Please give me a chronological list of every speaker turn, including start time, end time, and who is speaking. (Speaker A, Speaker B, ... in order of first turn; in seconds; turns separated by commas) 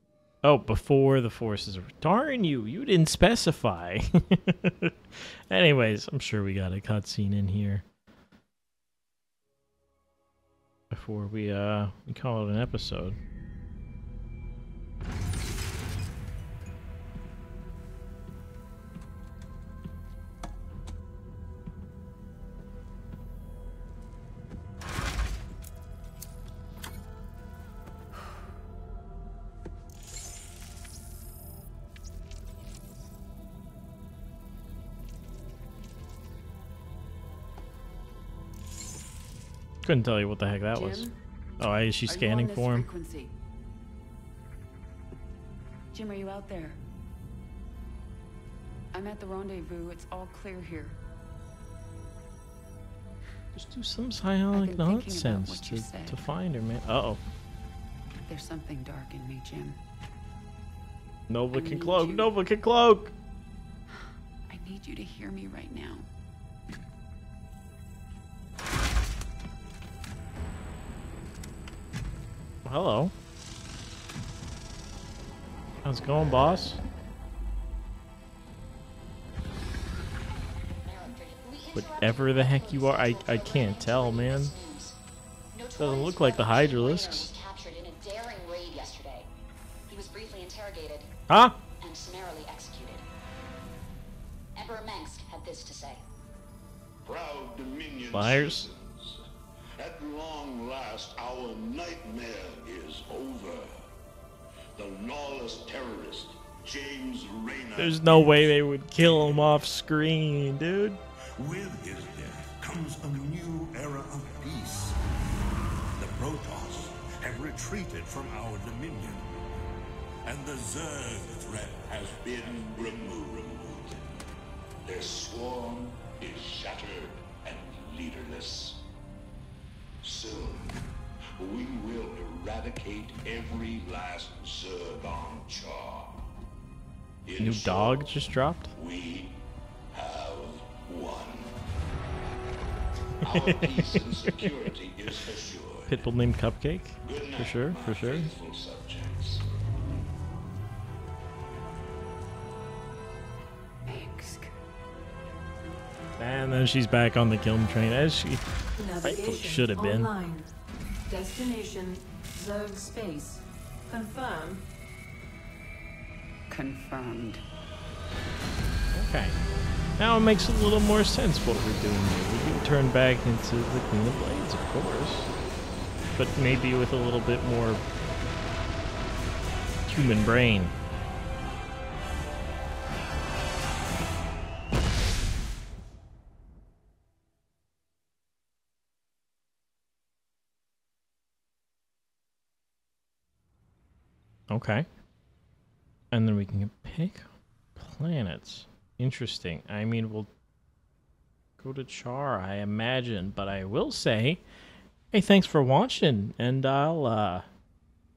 Speaker A: 0.4-7.8, Speaker A: 10.9-13.2, Speaker A: 39.8-41.1, Speaker B: 40.7-41.1, Speaker A: 41.6-42.9, Speaker B: 42.1-43.3, Speaker B: 45.9-46.8, Speaker B: 48.9-51.0, Speaker A: 53.5-57.2, Speaker B: 54.5-56.2, Speaker B: 58.3-59.8, Speaker A: 61.3-63.1, Speaker B: 61.5-62.3, Speaker B: 63.9-66.1, Speaker A: 72.6-73.1, Speaker A: 75.8-76.8, Speaker C: 80.8-85.0, Speaker A: 81.7-84.5, Speaker C: 85.5-89.3, Speaker A: 85.8-87.3, Speaker C: 89.9-91.1, Speaker A: 91.3-91.6, Speaker C: 91.8-93.0, Speaker C: 94.5-96.0, Speaker D: 97.0-99.2, Speaker A: 98.1-98.7, Speaker D: 99.8-103.8, Speaker D: 104.8-108.5, Speaker A: 107.8-111.0, Speaker D: 111.4-115.0, Speaker D: 116.0-119.3, Speaker D: 120.2-124.1, Speaker D: 124.8-128.8, Speaker D: 130.0-130.8, Speaker D: 131.4-136.3, Speaker D: 137.2-138.2, Speaker A: 137.4-138.7, Speaker D: 138.7-141.5, Speaker D: 143.2-146.1, Speaker A: 143.2-144.7, Speaker A: 145.9-148.3, Speaker D: 147.0-149.4, Speaker B: 153.8-154.5, Speaker A: 156.2-158.4, Speaker E: 158.8-160.5, Speaker A: 159.0-160.1, Speaker E: 161.1-164.6, Speaker B: 166.5-167.4, Speaker A: 168.9-169.4, Speaker A: 170.0-175.3, Speaker A: 176.1-177.8, Speaker A: 179.8-180.7, Speaker A: 194.5-194.9, Speaker A: 196.1-200.3, Speaker A: 201.6-204.4, Speaker A: 205.1-207.5